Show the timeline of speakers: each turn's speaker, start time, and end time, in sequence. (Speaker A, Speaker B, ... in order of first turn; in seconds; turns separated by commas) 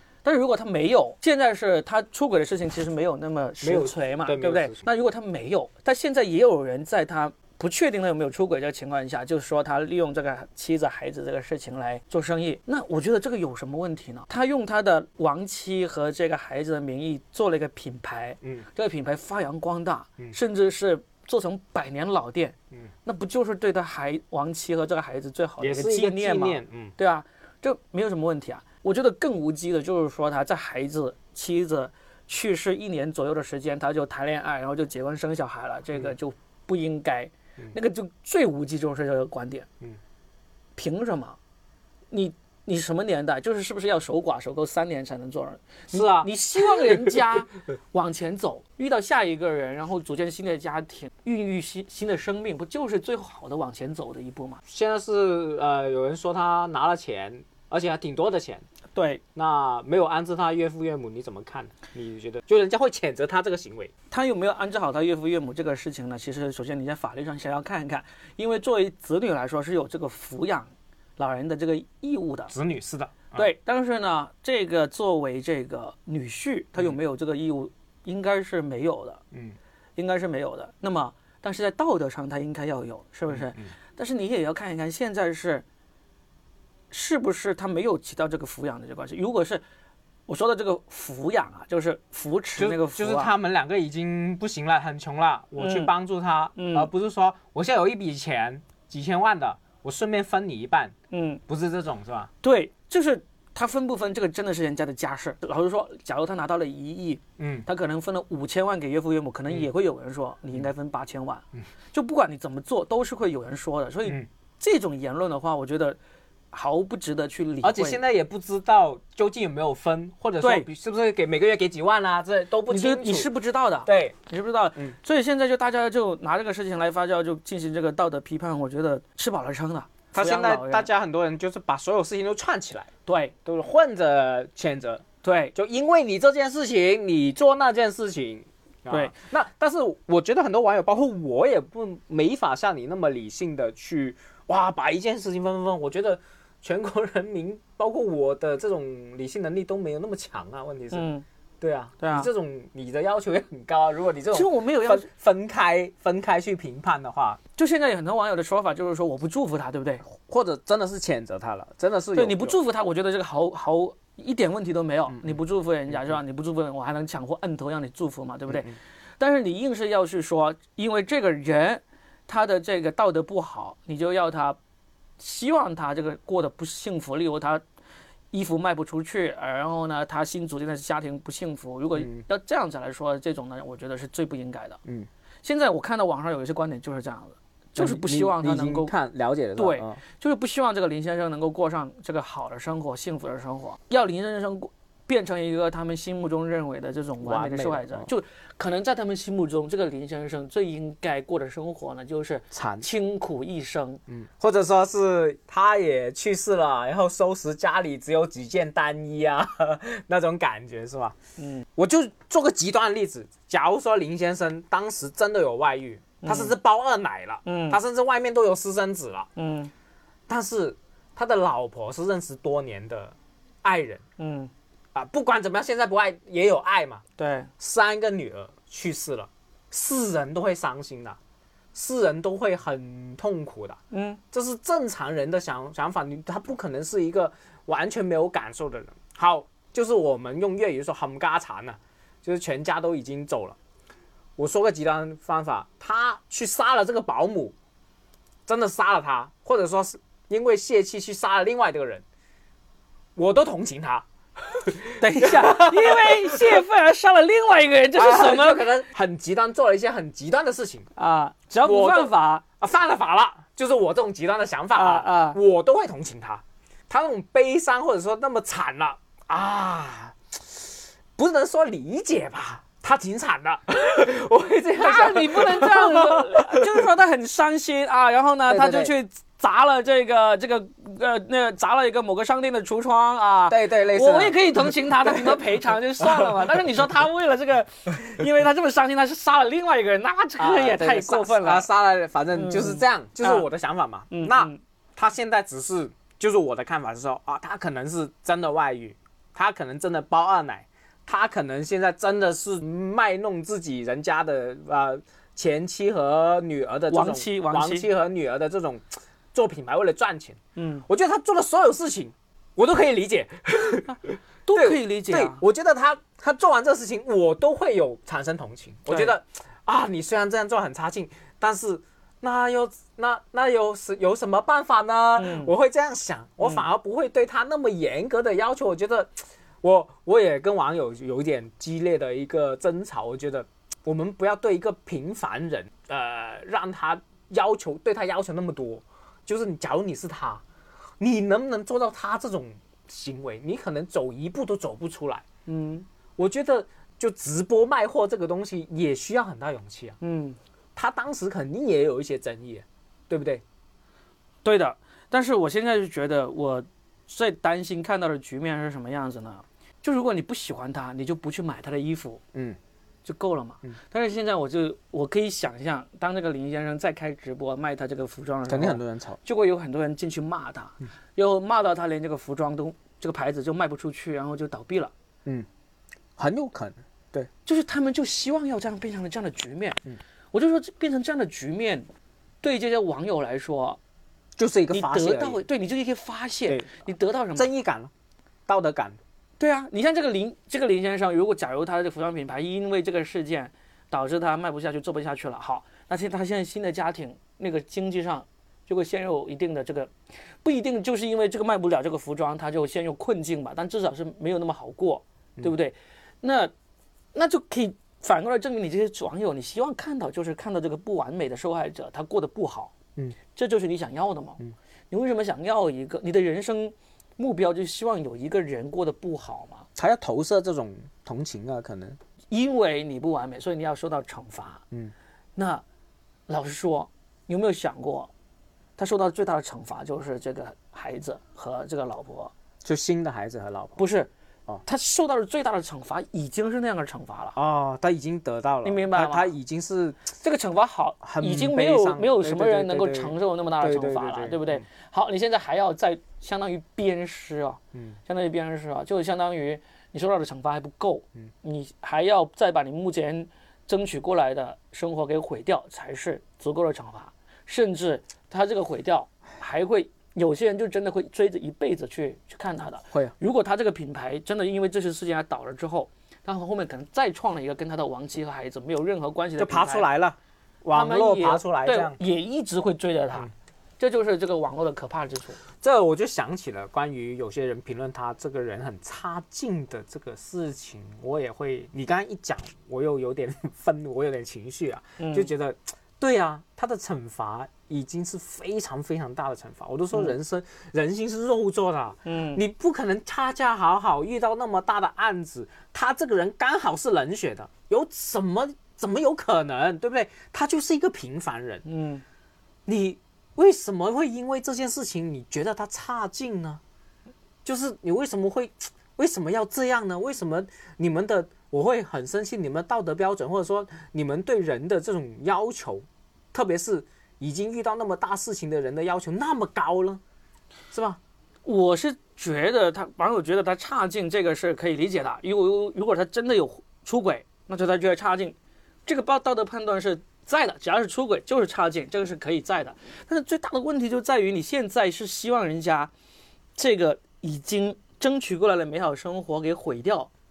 Speaker A: 0.2-39.7, Speaker B: 3.6-4.8, Speaker B: 25.6-26.9, Speaker A: 40.8-41.4, Speaker A: 42.1-54.6, Speaker B: 45.9-47.2, Speaker B: 54.7-58.6, Speaker A: 58.9-59.2, Speaker B: 59.4-63.9, Speaker A: 64.1-72.5, Speaker B: 72.5-73.5, Speaker A: 73.3-79.2, Speaker A: 80.0-85.7, Speaker B: 83.3-83.7, Speaker A: 86.9-89.6, Speaker A: 90.3-93.3, Speaker B: 92.6-101.0, Speaker A: 95.6-95.9, Speaker A: 96.6-96.9, Speaker A: 101.1-101.4, Speaker B: 101.5-102.3, Speaker A: 102.4-116.0, Speaker B: 107.4-107.7, Speaker A: 116.5-118.0, Speaker B: 117.6-123.3, Speaker A: 120.4-120.7, Speaker A: 122.7-130.9, Speaker B: 123.9-124.2, Speaker B: 130.1-132.9, Speaker A: 133.1-133.3, Speaker B: 133.4-135.0, Speaker A: 135.2-135.5, Speaker B: 135.6-151.1, Speaker A: 150.9-151.2, Speaker B: 151.6-157.4, Speaker A: 152.0-152.3, Speaker A: 154.3-155.1, Speaker A: 157.6-160.0, Speaker B: 160.1-162.6, Speaker A: 162.1-174.6, Speaker B: 165.1-165.4, Speaker B: 165.9-166.2, Speaker B: 168.5-168.8, Speaker A: 175.2-177.6, Speaker A: 178.3-184.8, Speaker B: 181.9-182.2, Speaker A: 185.4-188.9, Speaker B: 187.8-190.0, Speaker A: 189.6-204.0, Speaker B: 197.2-198.1, Speaker B: 202.5-202.9, Speaker B: 204.1-211.2, Speaker A: 211.4-211.7, Speaker B: 211.8-219.3, Speaker A: 216.2-216.5, Speaker A: 217.5-217.8, Speaker A: 219.4-219.7, Speaker B: 220.3-224.0, Speaker A: 224.2-224.5, Speaker B: 224.9-227.0, Speaker A: 227.2-227.5, Speaker B: 227.6-231.2, Speaker B: 231.7-233.8, Speaker A: 233.9-234.2, Speaker B: 234.3-243.6, Speaker B: 244.4-247.6, Speaker B: 248.5-252.0, Speaker B: 253.2-254.1, Speaker B: 254.6-256.6, Speaker A: 255.0-258.8, Speaker B: 257.9-260.9, Speaker A: 261.0-262.4, Speaker B: 261.6-276.7, Speaker A: 264.8-265.4, Speaker A: 274.8-291.7, Speaker B: 278.5-278.9, Speaker B: 283.5-285.4, Speaker B: 286.1-286.4, Speaker B: 290.4-340.4, Speaker A: 292.3-293.5, Speaker A: 294.1-294.6, Speaker A: 306.9-307.9, Speaker A: 310.6-310.9, Speaker A: 314.4-315.4, Speaker A: 318.9-319.1, Speaker A: 325.2-325.5, Speaker B: 341.0-345.2, Speaker A: 345.5-345.9, Speaker B: 346.2-350.0, Speaker A: 350.0-350.4, Speaker B: 350.8-353.4, Speaker A: 354.4-362.2, Speaker A: 363.1-374.9, Speaker B: 368.5-369.2, Speaker B: 376.2-377.3, Speaker A: 377.5-381.9, Speaker A: 382.4-383.8, Speaker B: 384.4-385.4, Speaker A: 384.7-387.5, Speaker B: 386.5-386.7, Speaker B: 387.4-387.9, Speaker B: 388.5-389.0, Speaker A: 389.4-399.9, Speaker A: 400.4-406.5, Speaker A: 407.1-412.7, Speaker A: 413.3-419.7, Speaker B: 419.8-422.0, Speaker A: 422.3-424.6, Speaker A: 425.4-425.6, Speaker A: 426.3-428.1, Speaker A: 428.8-432.3, Speaker B: 432.6-433.8, Speaker A: 433.8-434.1, Speaker A: 434.6-437.4, Speaker B: 437.4-440.1, Speaker A: 438.6-439.3, Speaker A: 440.1-469.9, Speaker B: 441.0-444.6, Speaker B: 469.4-472.0, Speaker A: 470.7-475.4, Speaker B: 475.6-501.6, Speaker A: 485.0-485.3, Speaker A: 492.1-492.4, Speaker A: 501.6-502.0, Speaker B: 502.7-506.6, Speaker B: 507.4-520.0, Speaker B: 520.7-521.0, Speaker A: 521.5-535.9, Speaker A: 536.6-540.1